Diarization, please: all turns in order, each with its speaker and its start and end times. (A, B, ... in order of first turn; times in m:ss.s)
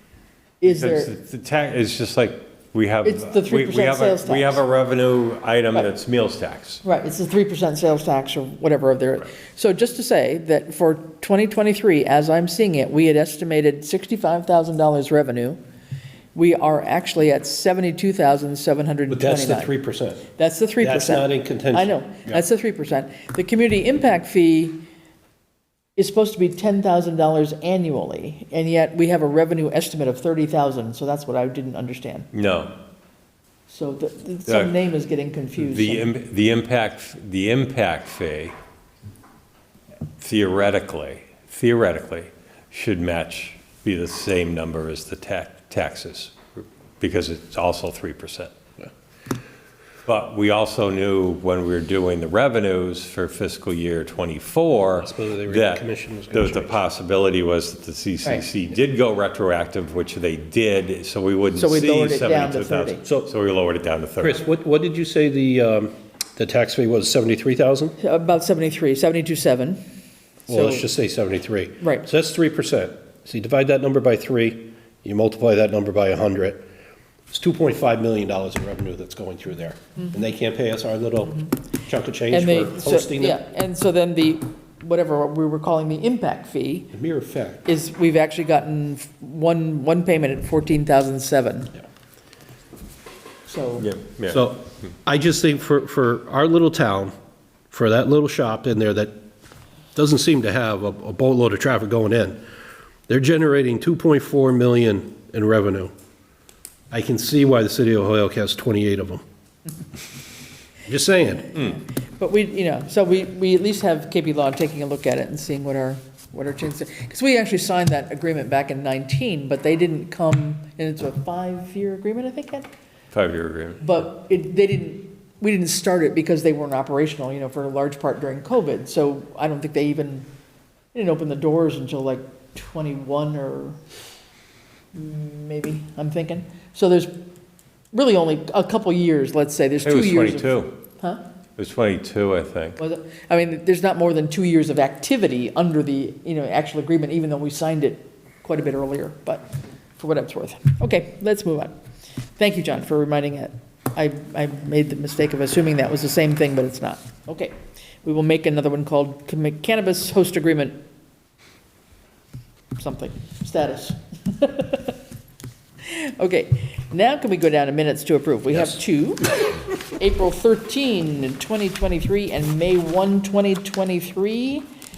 0:00.6-0:01.2 A
0:00.6-0:06.8 B
0:03.0-0:04.6 A
0:06.8-0:15.6 A
0:16.4-0:19.7 A
0:19.1-0:20.2 C
0:20.4-0:24.8 A
0:20.8-0:22.4 C
0:26.0-0:32.3 A
0:32.3-0:32.7 B
0:33.7-0:36.1 A
0:34.5-0:34.8 B
0:35.6-0:38.6 B
0:40.2-0:46.4 B
0:47.0-0:48.5 B
0:50.1-1:04.4 B
0:55.0-0:56.8 C
1:01.6-1:03.0 A
1:04.2-1:08.0 C
1:08.0-1:09.8 A
1:10.5-1:10.9 A
1:10.5-1:16.7 C
1:11.8-1:12.1 A
1:17.3-1:23.4 C
1:22.3-1:26.9 A
1:26.9-1:27.6 C
1:27.7-1:31.8 A
1:33.5-1:33.9 A
1:33.8-1:34.4 B
1:34.3-1:37.1 C
1:37.7-1:39.1 C
1:40.0-1:42.4 C
1:43.1-1:45.9 C
1:46.9-1:49.2 C
1:50.9-1:51.5 C
1:51.5-2:02.7 A
2:03.1-2:03.9 B
2:03.8-2:10.3 A
2:10.9-2:13.8 A
2:14.9-2:17.1 A
2:17.9-2:21.2 A
2:19.8-2:20.7 B
2:21.6-2:22.8 B
2:22.8-2:29.5 A
2:30.0-2:31.8 A
2:32.4-2:40.8 A
2:42.8-2:45.0 A
2:45.8-2:54.7 A